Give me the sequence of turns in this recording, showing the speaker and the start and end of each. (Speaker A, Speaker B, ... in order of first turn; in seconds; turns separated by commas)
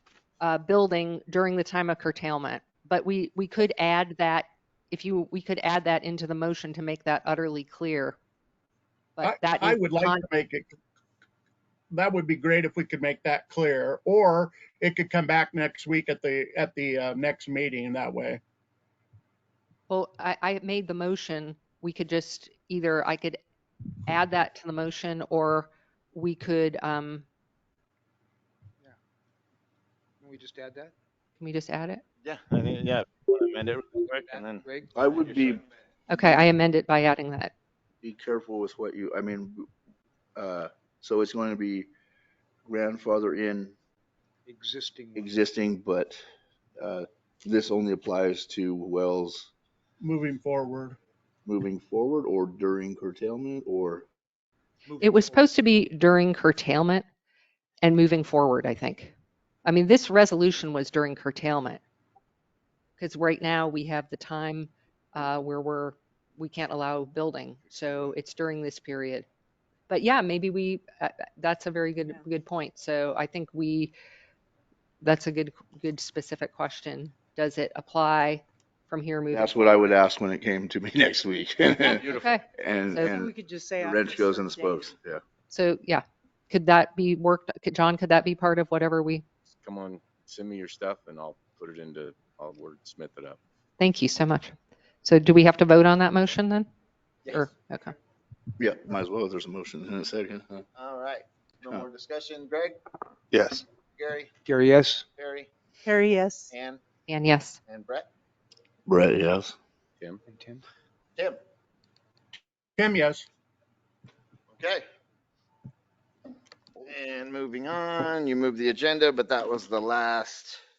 Speaker A: 0.4-8.2, Speaker A: 9.2-10.2, Speaker B: 9.2-10.8, Speaker B: 11.9-18.4, Speaker A: 19.9-23.4, Speaker A: 24.1-27.2, Speaker C: 30.2-30.9, Speaker A: 31.4-32.0, Speaker D: 32.2-34.6, Speaker C: 34.1-35.4, Speaker E: 34.9-36.3, Speaker A: 36.1-37.5, Speaker E: 38.0-39.7, Speaker E: 40.4-41.9, Speaker E: 42.6-43.8, Speaker C: 44.5-45.3, Speaker E: 45.1-46.2, Speaker E: 46.8-49.5, Speaker B: 50.0-51.0, Speaker E: 51.5-54.1, Speaker C: 54.9-55.4, Speaker A: 55.0-57.0, Speaker A: 57.8-59.1, Speaker A: 59.6-61.8, Speaker A: 63.0-69.2, Speaker A: 69.9-73.9, Speaker A: 75.0-79.7, Speaker E: 79.3-85.2, Speaker A: 81.9-82.4, Speaker F: 82.0-82.2, Speaker G: 82.9-84.9, Speaker A: 85.5-89.2, Speaker F: 89.6-93.4, Speaker A: 93.8-96.7, Speaker A: 97.3-97.9, Speaker E: 98.6-100.6, Speaker D: 100.8-102.8, Speaker E: 103.3-103.6, Speaker D: 103.9-104.3, Speaker C: 104.5-105.0, Speaker D: 105.2-105.5, Speaker G: 105.8-106.5, Speaker D: 106.5-106.8, Speaker A: 107.1-107.6, Speaker D: 107.7-108.0, Speaker E: 108.8-109.5, Speaker C: 110.3-110.6, Speaker B: 112.8-113.2, Speaker D: 114.6-114.8, Speaker D: 116.8-120.6